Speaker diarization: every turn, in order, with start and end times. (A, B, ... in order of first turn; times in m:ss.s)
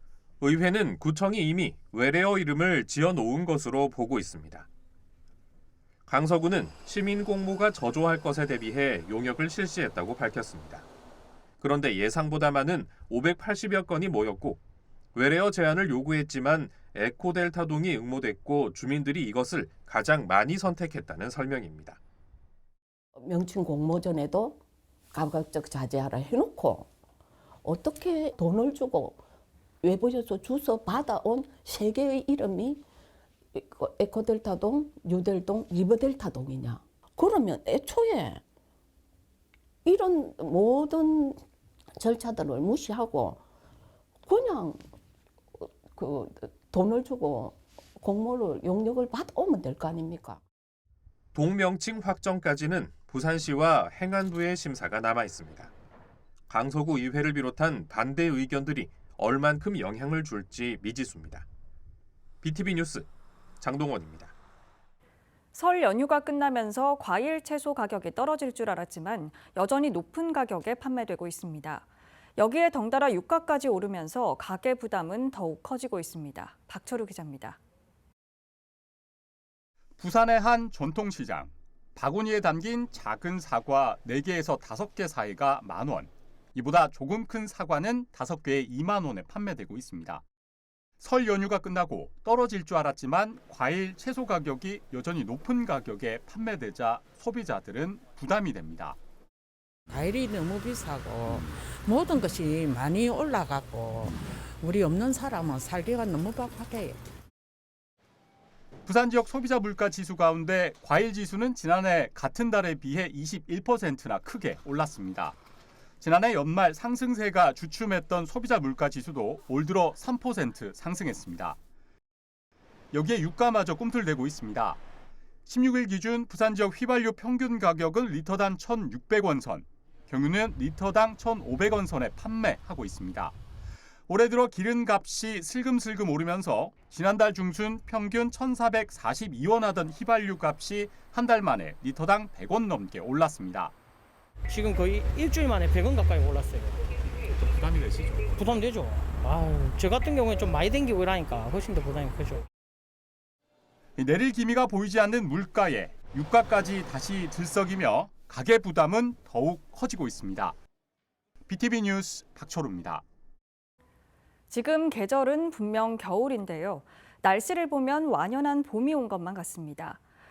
0:00.4-0:04.7 A
0:06.1-0:10.9 A
0:11.6-0:14.6 A
0:15.1-0:22.0 A
0:23.2-0:24.6 B
0:25.1-0:26.9 B
0:27.6-0:29.2 B
0:29.8-0:32.8 B
0:33.5-0:38.4 B
0:39.8-0:41.4 B
0:42.0-0:43.4 B
0:44.3-0:44.8 B
0:45.6-0:50.4 B
0:51.3-0:55.7 A
0:56.5-1:01.4 A
1:02.4-1:03.1 A
1:03.6-1:04.3 A
1:05.5-1:11.9 C
1:12.4-1:17.6 C
1:20.0-1:30.2 D
1:31.0-1:39.0 D
1:39.9-1:47.0 E
1:48.8-1:55.4 D
1:56.0-2:01.6 D
2:02.9-2:04.8 D
2:05.5-2:13.4 D
2:14.1-2:23.7 D
2:24.5-2:26.8 F
2:28.3-2:32.4 F
2:34.0-2:40.6 D
2:41.5-2:43.0 D
2:44.5-2:50.0 C